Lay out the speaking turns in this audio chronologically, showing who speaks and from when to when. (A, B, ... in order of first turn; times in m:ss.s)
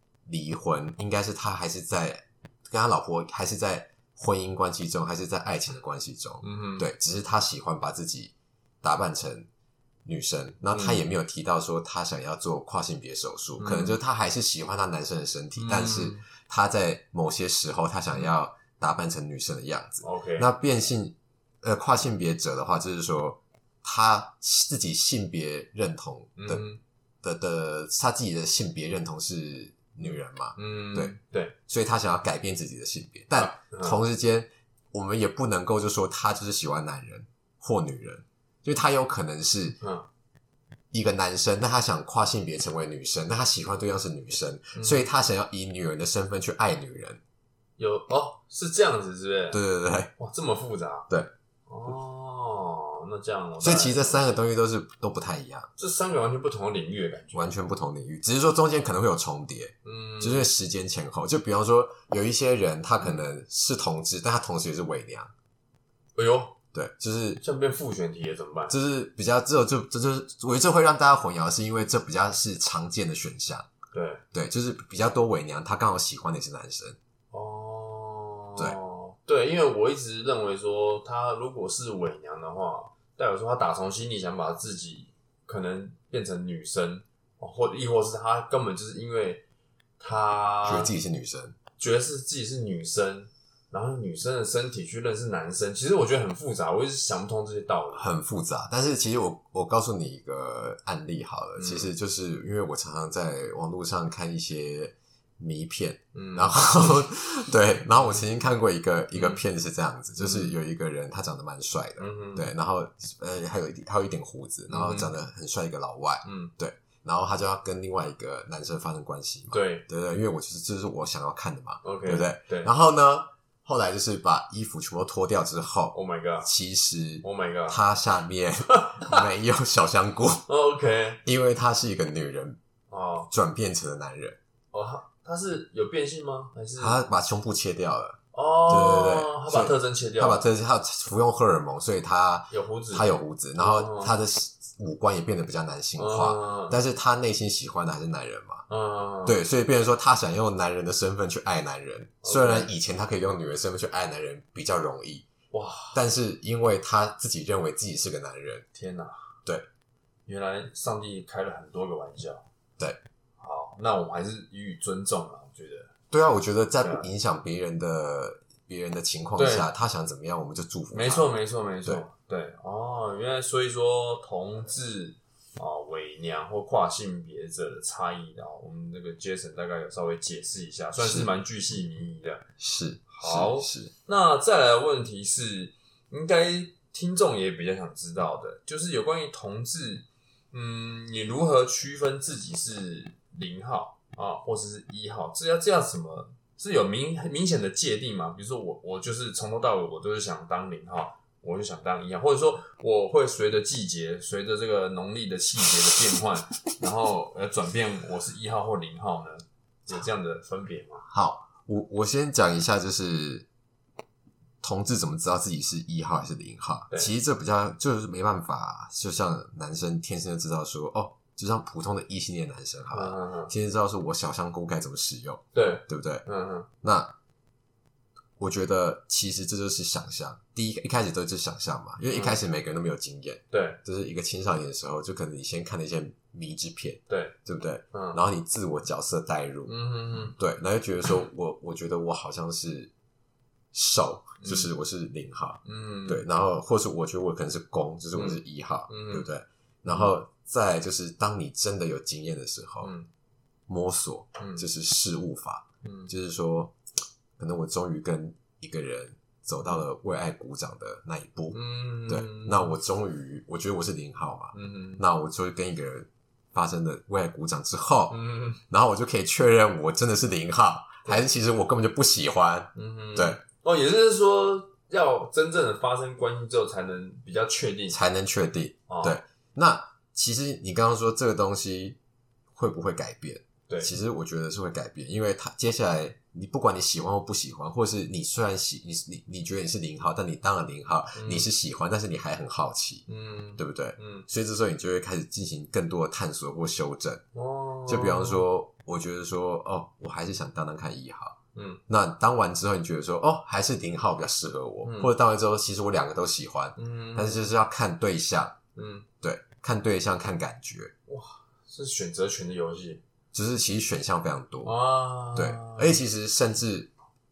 0:00.3-0:09.5 A
0:06.4-0:06.9 B
0:10.1-0:26.6 A
0:10.7-0:11.0 B
0:13.6-0:14.0 B
0:15.6-0:16.2 B
0:20.0-0:20.5 B
0:26.4-0:26.8 B
0:27.2-0:31.2 A
0:30.0-0:31.6 B
0:31.7-0:39.8 A
0:33.4-0:34.0 B
0:39.8-0:40.1 B
0:40.9-0:47.2 A
0:44.7-0:45.1 B
0:47.8-0:49.6 B
0:49.5-0:50.1 A
0:50.2-0:51.1 B
0:51.7-0:54.4 B
0:53.6-0:55.7 A
0:55.8-0:57.5 B
0:57.3-1:05.3 A
0:59.8-1:00.5 B
1:06.2-1:06.6 B
1:06.7-1:07.4 A
1:07.4-1:08.8 B
1:08.7-1:13.7 A
1:13.9-1:14.2 B
1:14.3-1:17.0 A
1:17.3-1:29.4 B
1:30.0-1:30.9 B
1:30.6-1:31.6 A
1:31.8-1:38.1 B
1:38.0-2:10.5 A
1:41.6-1:41.9 B
1:46.1-1:47.1 B
1:47.9-1:48.2 B
1:49.2-1:49.4 B
1:50.2-1:50.6 B
1:52.0-1:52.5 B
1:54.7-1:55.1 B
1:56.2-1:56.5 B
1:59.5-1:59.8 B
2:01.8-2:02.7 B
2:05.9-2:06.5 B
2:07.2-2:07.8 B
2:08.7-2:09.2 B
2:10.5-2:11.2 B
2:11.2-2:12.6 A
2:12.9-2:13.3 B
2:13.3-2:14.4 A
2:14.7-2:17.0 B
2:16.8-2:28.6 A
2:18.3-2:20.5 B
2:22.5-2:24.1 B
2:26.0-2:26.8 B
2:28.7-2:29.4 B
2:29.3-2:35.3 A
2:32.2-2:32.7 B
2:35.5-2:36.0 B
2:35.9-2:38.7 A
2:38.8-2:39.2 B
2:40.3-2:42.5 B
2:43.4-2:45.9 B
2:46.1-2:52.0 A
2:46.8-2:47.1 B
2:49.4-2:49.7 B
2:50.9-3:02.4 B
3:01.0-3:01.3 A
3:02.6-3:03.9 A
3:03.1-3:31.1 B
3:31.1-3:33.5 A
3:34.6-3:46.2 A
3:42.9-3:43.5 B
3:45.5-3:46.7 B
3:46.8-3:47.1 A
3:48.4-3:59.7 A
3:52.1-3:52.4 B
3:53.5-3:53.8 B
3:57.1-3:57.4 B
3:57.9-3:58.2 B
3:59.7-4:00.4 B
4:00.4-4:02.9 A
4:03.7-4:12.9 A
4:04.4-4:04.7 B
4:05.6-4:06.2 B
4:08.1-4:09.3 B
4:09.9-4:10.1 B
4:12.8-4:13.1 B
4:13.7-4:16.7 A
4:14.4-4:14.7 B
4:15.8-4:16.1 B
4:17.4-4:33.4 A
4:21.5-4:22.8 B
4:24.5-4:25.0 B
4:28.1-4:28.6 B
4:32.8-4:38.0 B
4:37.9-4:42.0 A
4:38.9-4:39.2 B
4:42.5-4:53.0 A
4:43.7-4:43.9 B
4:51.2-4:51.5 B
4:53.1-4:54.3 B
4:53.6-4:57.2 A
4:57.4-4:58.4 B
4:57.9-5:01.4 A
5:01.6-5:01.8 B
5:01.9-5:08.6 A
5:04.8-5:05.1 B
5:06.8-5:07.5 B
5:08.8-5:09.1 B
5:09.2-5:10.9 A
5:11.1-5:13.0 B
5:13.3-5:14.8 A
5:14.6-5:16.0 B
5:15.4-5:16.9 A